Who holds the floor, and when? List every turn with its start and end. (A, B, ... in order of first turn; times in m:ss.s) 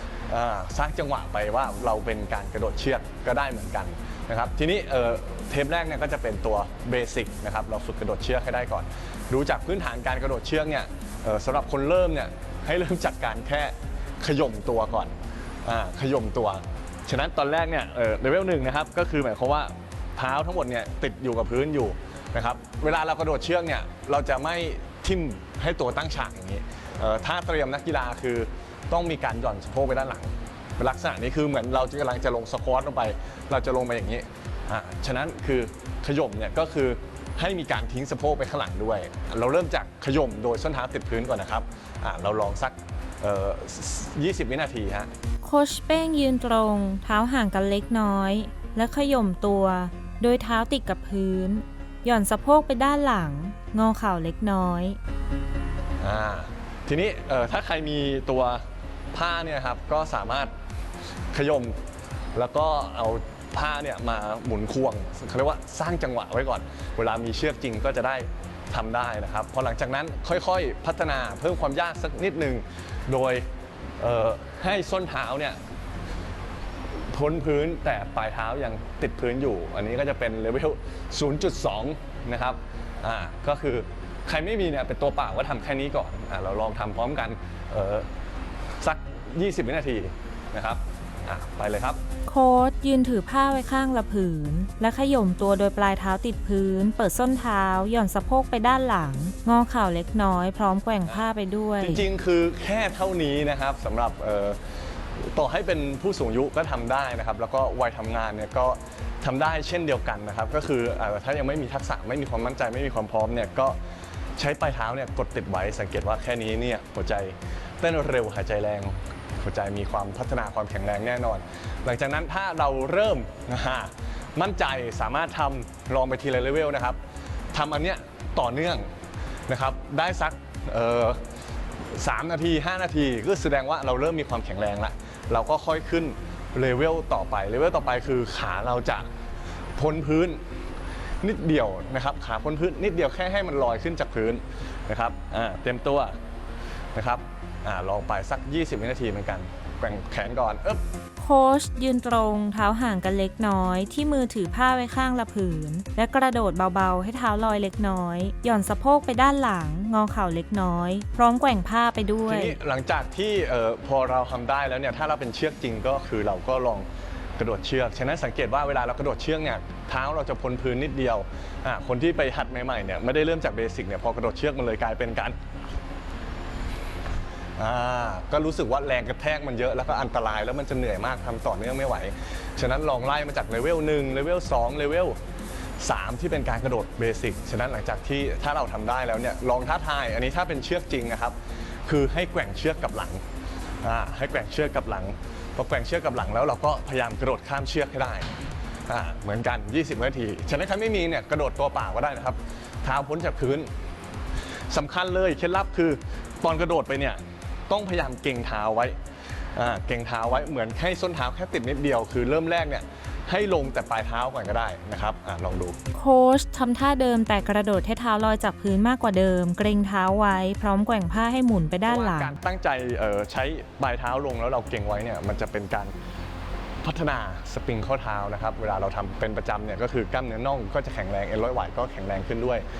0:00.3-0:45.1 A
0:45.4-0:55.0 B
0:56.0-1:00.5 A
1:01.3-1:01.8 A
1:02.3-1:13.4 A
1:14.0-1:15.6 A
1:17.1-1:28.1 A
1:28.8-1:32.0 A
1:32.3-1:42.0 B
1:41.8-1:44.6 A
1:45.2-1:53.8 A
1:54.4-2:07.0 A
2:07.5-2:08.9 A
2:09.5-2:11.2 A
2:11.9-2:19.1 A
2:19.8-2:20.4 A
2:21.2-2:26.1 A
2:26.9-2:30.8 A
2:31.2-2:42.6 B
2:42.3-2:46.8 A
2:47.4-2:55.4 A
2:57.6-3:05.2 A
3:05.8-3:13.2 A
3:13.8-3:23.7 A
3:24.7-3:29.0 A
3:29.5-3:35.8 A
3:35.9-3:42.3 B
3:41.9-3:45.9 A
3:46.8-3:52.6 A